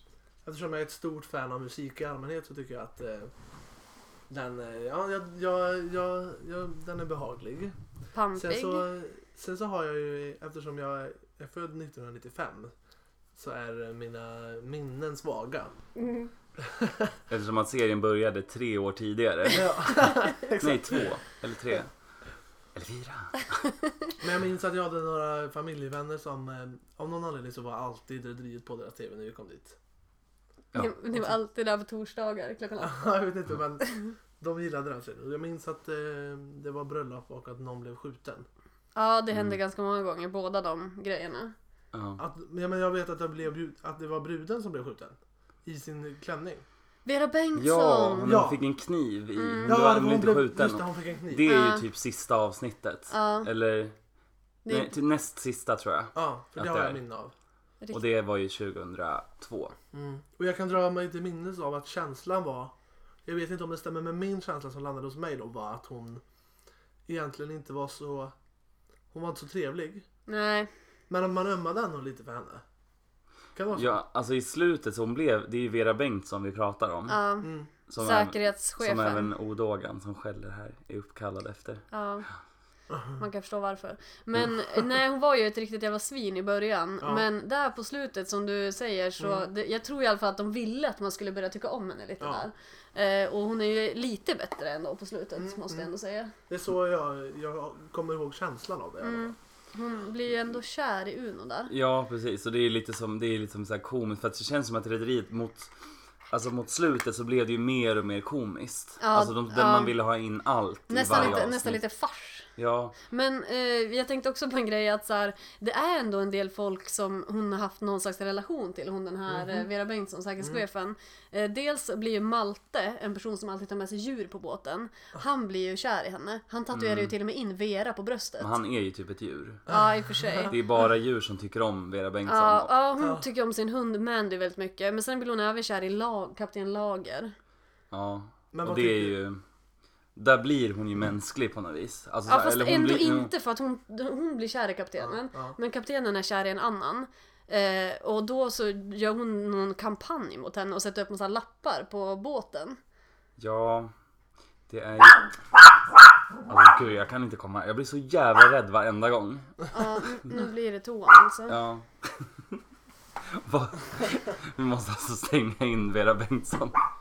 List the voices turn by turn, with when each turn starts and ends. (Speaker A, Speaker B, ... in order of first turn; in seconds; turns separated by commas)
Speaker A: 0.4-3.3, Speaker A: 4.3-7.8, Speaker B: 8.1-8.9, Speaker A: 8.3-12.7, Speaker A: 13.3-15.7, Speaker B: 16.0-16.3, Speaker A: 16.6-17.1, Speaker C: 17.3-21.9, Speaker A: 19.5-21.1, Speaker C: 22.8-23.6, Speaker A: 24.2-29.8, Speaker B: 30.8-33.1, Speaker A: 32.8-38.5, Speaker B: 38.9-41.5, Speaker C: 41.9-42.2, Speaker A: 42.2-46.6, Speaker B: 47.1-48.3, Speaker C: 47.5-53.9, Speaker A: 48.2-48.6, Speaker B: 49.4-49.8, Speaker A: 49.6-51.5, Speaker B: 51.5-51.8, Speaker B: 53.1-53.5, Speaker B: 54.7-54.9, Speaker C: 54.7-57.0, Speaker A: 56.1-57.3, Speaker C: 57.9-59.7, Speaker A: 59.9-62.7, Speaker A: 63.2-66.2, Speaker A: 67.1-68.3, Speaker A: 69.1-70.1, Speaker B: 70.3-70.7, Speaker A: 71.1-72.6, Speaker A: 73.5-74.0, Speaker C: 73.7-77.2, Speaker B: 77.1-79.3, Speaker A: 77.4-77.7, Speaker C: 77.9-81.8, Speaker B: 81.9-82.3, Speaker A: 82.9-83.2, Speaker B: 83.2-96.3, Speaker A: 89.2-89.5, Speaker A: 92.2-92.5, Speaker A: 95.4-95.9, Speaker A: 96.5-99.3, Speaker B: 99.0-101.7, Speaker C: 101.7-105.7, Speaker C: 106.3-111.8, Speaker B: 109.0-109.9, Speaker B: 110.9-112.5, Speaker C: 112.5-113.0, Speaker B: 113.1-128.5, Speaker A: 119.3-119.6, Speaker C: 126.7-127.1, Speaker C: 128.4-129.7, Speaker B: 129.7-130.6, Speaker A: 129.7-130.5, Speaker C: 130.5-132.7, Speaker B: 132.3-137.3, Speaker C: 137.9-139.4, Speaker A: 138.5-139.2, Speaker C: 140.2-143.3, Speaker B: 142.3-152.8, Speaker A: 145.0-145.6, Speaker C: 153.4-153.9, Speaker C: 154.7-155.3, Speaker C: 156.5-159.7, Speaker B: 159.7-161.6, Speaker C: 161.5-162.5, Speaker C: 163.3-166.8